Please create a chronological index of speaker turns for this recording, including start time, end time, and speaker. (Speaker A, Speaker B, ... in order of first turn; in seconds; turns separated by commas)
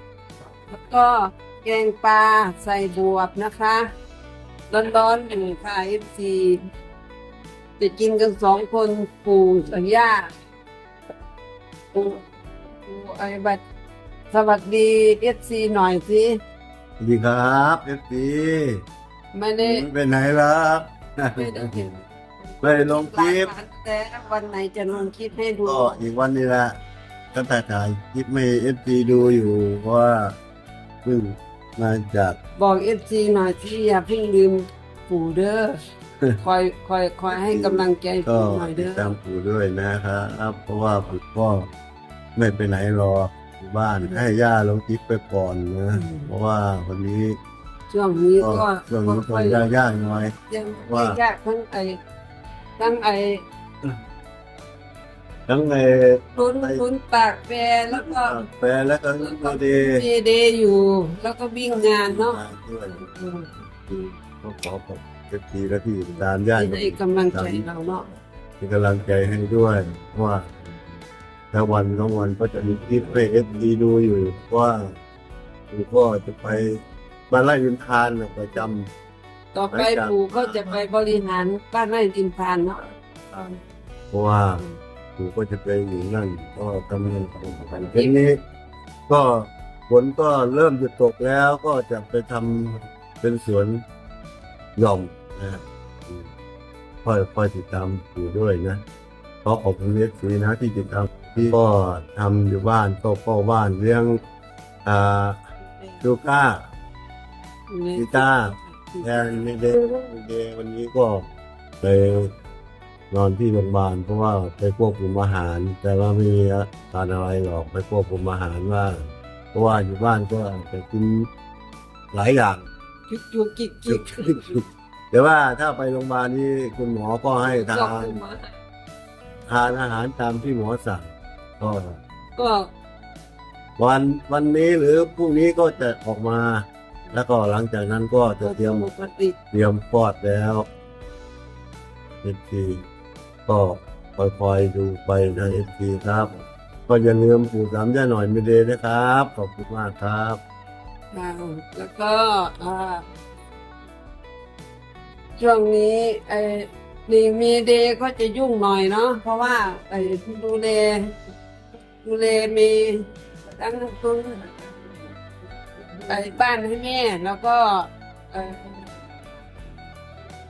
Speaker A: 0.7-3.9, Speaker A: 4.7-6.6, Speaker A: 7.8-10.3, Speaker A: 11.9-12.2, Speaker A: 12.8-13.6, Speaker A: 14.3-16.4, Speaker B: 17.0-18.8, Speaker A: 19.3-19.9, Speaker B: 19.6-21.8, Speaker A: 21.3-26.0, Speaker B: 22.6-23.5, Speaker B: 25.6-26.8, Speaker B: 27.3-30.4, Speaker B: 31.0-32.4, Speaker A: 32.6-35.8, Speaker A: 36.4-39.1, Speaker B: 37.3-41.7, Speaker B: 42.4-47.4, Speaker A: 45.9-46.3, Speaker A: 47.9-49.6, Speaker B: 48.4-50.3, Speaker A: 50.5-52.0, Speaker B: 50.9-51.2, Speaker A: 52.8-53.4, Speaker B: 55.5-56.8, Speaker A: 56.4-58.4, Speaker B: 57.9-60.0, Speaker A: 59.2-63.5, Speaker B: 62.0-63.0, Speaker B: 63.9-67.6, Speaker A: 66.5-68.1, Speaker B: 68.6-70.5, Speaker B: 71.5-74.9, Speaker B: 75.7-78.9, Speaker A: 79.5-82.8, Speaker B: 79.7-80.8, Speaker B: 84.1-84.7, Speaker B: 85.2-88.4, Speaker A: 87.7-88.1, Speaker B: 89.1-93.8, Speaker B: 94.8-96.3, Speaker B: 97.0-98.8, Speaker B: 99.4-104.2, Speaker B: 104.8-105.4, Speaker B: 106.0-106.7, Speaker A: 107.7-110.0, Speaker B: 107.9-111.3, Speaker B: 111.8-112.3, Speaker B: 113.1-121.3, Speaker B: 122.1-122.7, Speaker A: 123.1-124.6, Speaker B: 123.9-128.2, Speaker A: 127.4-128.4, Speaker B: 129.5-132.0, Speaker A: 132.4-132.7, Speaker B: 133.8-138.9, Speaker A: 138.4-139.3, Speaker B: 139.5-140.7, Speaker B: 142.2-142.8, Speaker B: 143.4-150.4, Speaker A: 151.1-153.1, Speaker A: 155.4-161.1, Speaker A: 162.0-164.6, Speaker A: 166.0-168.8